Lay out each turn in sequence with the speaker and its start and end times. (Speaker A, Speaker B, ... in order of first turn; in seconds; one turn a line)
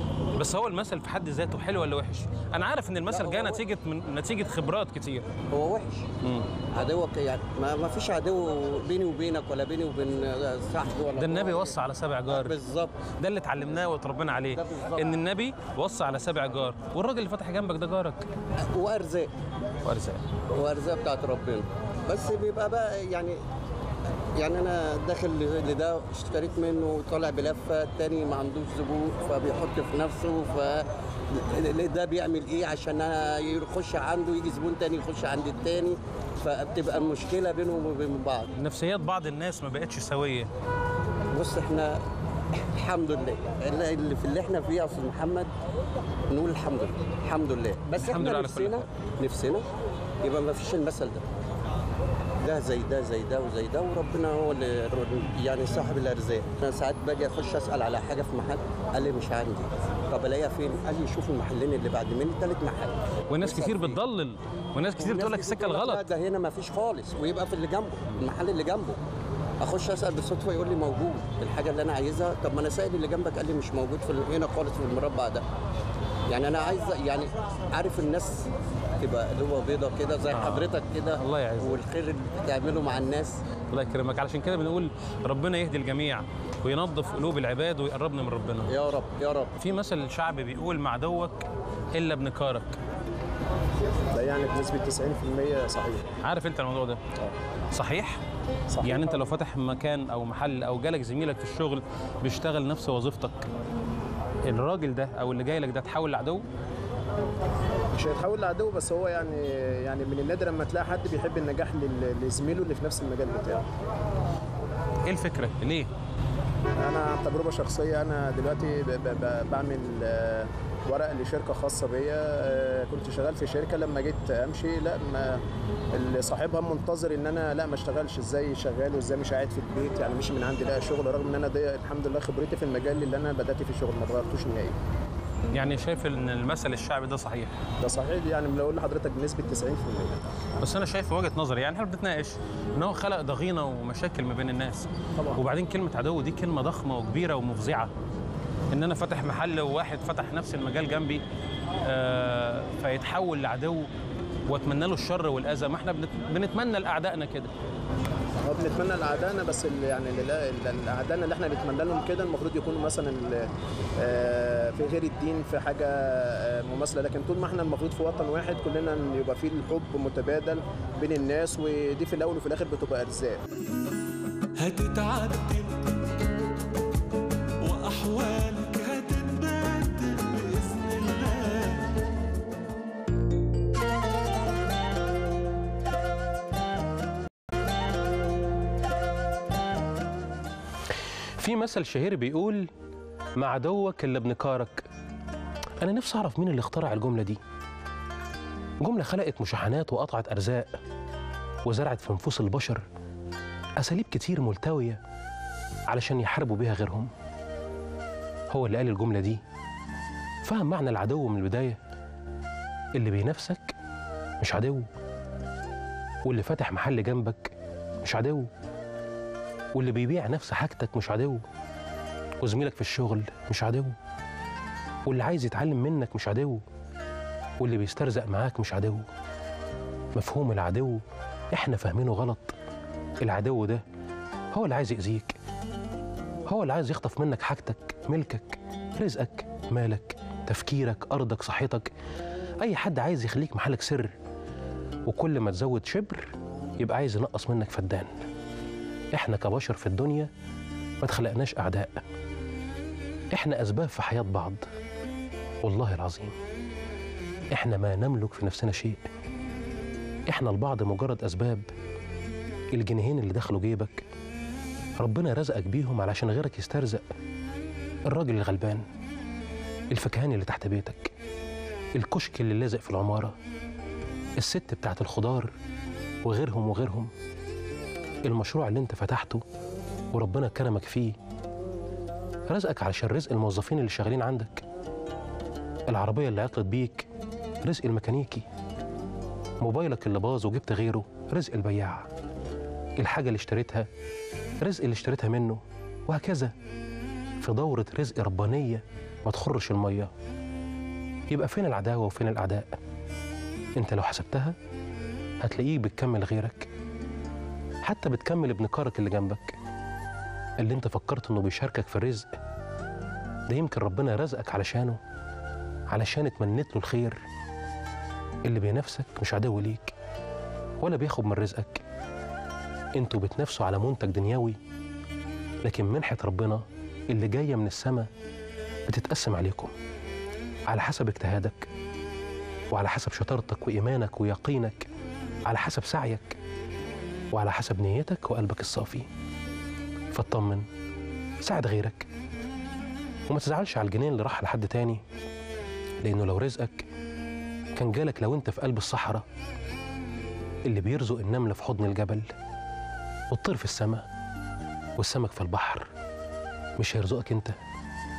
Speaker A: 0.3-5.3
Speaker B: 3.0-3.6
Speaker B: 5.5-6.1
Speaker A: 6.2-6.5
Speaker B: 6.7-11.8
Speaker A: 11.1-12.5
Speaker B: 12.3-13.1
Speaker A: 13.2-18.3
Speaker B: 18.7-19.3
Speaker A: 19.8-20.2
Speaker B: 20.5-23.4
Speaker B: 24.3-38.5
Speaker A: 38.5-40.5
Speaker B: 41.3-42.0
Speaker B: 42.5-45.5
Speaker B: 46.3-49.6
Speaker A: 47.9-48.9
Speaker B: 50.2-51.2
Speaker B: 52.4-64.0
Speaker A: 63.3-66.0
Speaker B: 64.9-69.0
Speaker B: 69.6-75.4
Speaker B: 76.3-78.5
Speaker B: 79.0-83.4
Speaker A: 80.3-81.8
Speaker A: 83.7-88.7
Speaker B: 88.7-89.5
Speaker A: 89.6-92.8
Speaker C: 94.1-96.0
Speaker A: 96.2-97.0
Speaker A: 97.7-98.2
Speaker C: 98.7-99.2
Speaker A: 98.8-103.5
Speaker A: 104.4-106.4
Speaker C: 107.9-113.6
Speaker A: 115.0-115.9
Speaker C: 116.7-125.4
Speaker C: 125.9-134.8
Speaker A: 135.5-137.6
Speaker C: 137.8-140.2
Speaker A: 140.6-147.9
Speaker C: 145.2-145.4
Speaker A: 148.7-151.2
Speaker A: 151.8-153.9
Speaker A: 154.5-157.5
Speaker C: 158.4-163.5
Speaker C: 164.0-173.4
Speaker D: 174.6-175.9
Speaker D: 177.6-181.9
Speaker E: 191.4-192.7
Speaker E: 193.4-194.9
Speaker E: 195.8-197.4
Speaker E: 198.8-200.7
Speaker E: 201.6-202.8
Speaker E: 203.8-205.0
Speaker E: 205.9-207.1
Speaker E: 208.5-209.4
Speaker E: 210.4-211.8
Speaker E: 212.9-213.7
Speaker E: 214.4-214.9
Speaker E: 216.2-218.5
Speaker E: 219.7-221.4
Speaker E: 222.4-223.9
Speaker E: 225.1-226.6
Speaker E: 227.6-229.1
Speaker E: 230.1-232.5
Speaker E: 233.2-233.8
Speaker E: 234.5-235.4
Speaker E: 236.5-241.9
Speaker E: 242.6-244.1
Speaker E: 245.1-248.1
Speaker E: 249.1-250.3
Speaker E: 251.0-252.0
Speaker E: 253.3-254.6
Speaker E: 255.6-256.3
Speaker E: 257.5-259.0
Speaker E: 260.3-261.7
Speaker E: 262.7-264.0
Speaker E: 265.0-267.0
Speaker E: 268.1-268.8
Speaker E: 269.9-271.1
Speaker E: 271.9-273.4
Speaker E: 274.4-275.5
Speaker E: 276.2-277.1
Speaker E: 278.2-279.4
Speaker E: 280.1-281.1
Speaker E: 282.5-284.6
Speaker E: 285.9-287.1
Speaker E: 287.6-288.4
Speaker E: 289.6-292.1
Speaker E: 293.0-293.9
Speaker E: 294.6-296.5
Speaker E: 297.4-300.1
Speaker E: 301.3-302.7
Speaker E: 303.8-304.5
Speaker E: 305.4-306.7
Speaker E: 307.8-309.6
Speaker E: 310.6-312.3
Speaker E: 313.5-315.0
Speaker E: 315.9-317.2
Speaker E: 318.4-319.9
Speaker E: 320.8-321.8
Speaker E: 322.9-324.6
Speaker E: 325.6-328.1
Speaker E: 328.9-329.7
Speaker E: 330.7-331.7
Speaker E: 332.7-334.9
Speaker E: 335.4-336.4
Speaker E: 337.3-339.1
Speaker E: 340.1-340.6
Speaker E: 341.4-342.1
Speaker E: 343.3-345.0
Speaker E: 346.0-346.8
Speaker E: 347.7-349.2
Speaker E: 350.6-352.3
Speaker E: 353.3-354.1
Speaker E: 355.0-355.9
Speaker E: 356.8-357.5